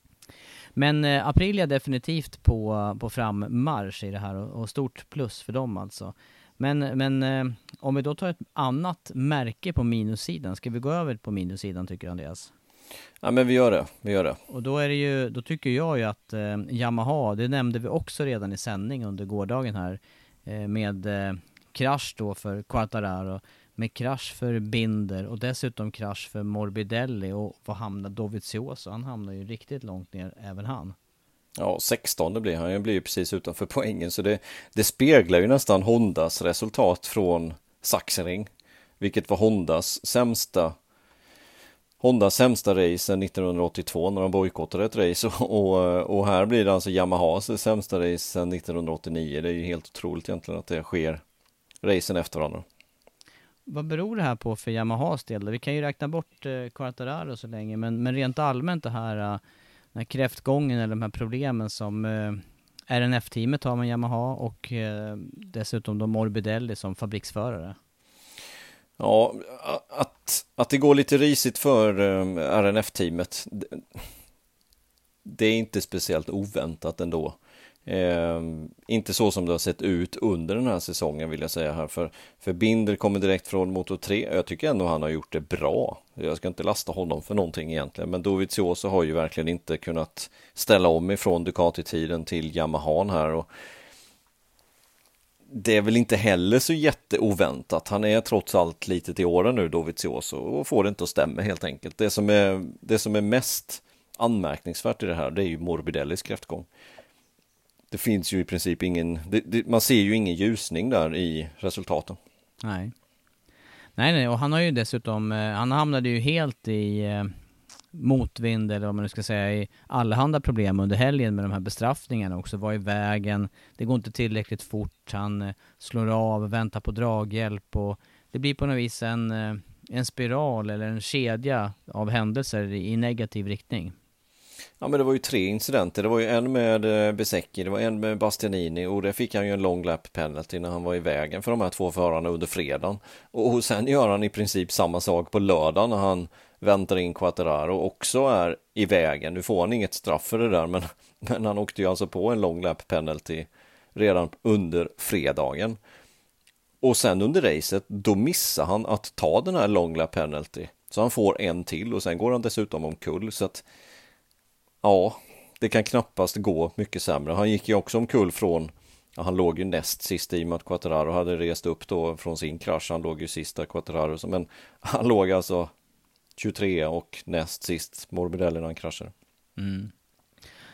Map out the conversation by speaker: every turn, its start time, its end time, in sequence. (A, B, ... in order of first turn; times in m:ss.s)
0:00.8-0:12.5 A
0:13.2-0:14.4 B
0:14.5-0:31.0 A
0:31.6-0:38.5 B
0:39.0-0:40.8 B
0:42.0-0:51.2 B
0:51.8-0:52.6 B
0:53.7-0:59.4 A
0:59.9-1:07.8 A
1:09.0-1:14.0 B
1:15.2-1:33.5 B
1:35.5-1:46.7 B
1:47.9-1:52.2 B
1:52.6-1:52.9 A
1:54.0-1:57.3 A
1:57.9-2:14.0 A
2:14.8-2:35.8 B
2:36.8-2:43.6 B
2:44.8-2:55.7 B
2:56.4-2:59.1 B
2:59.6-2:59.9 A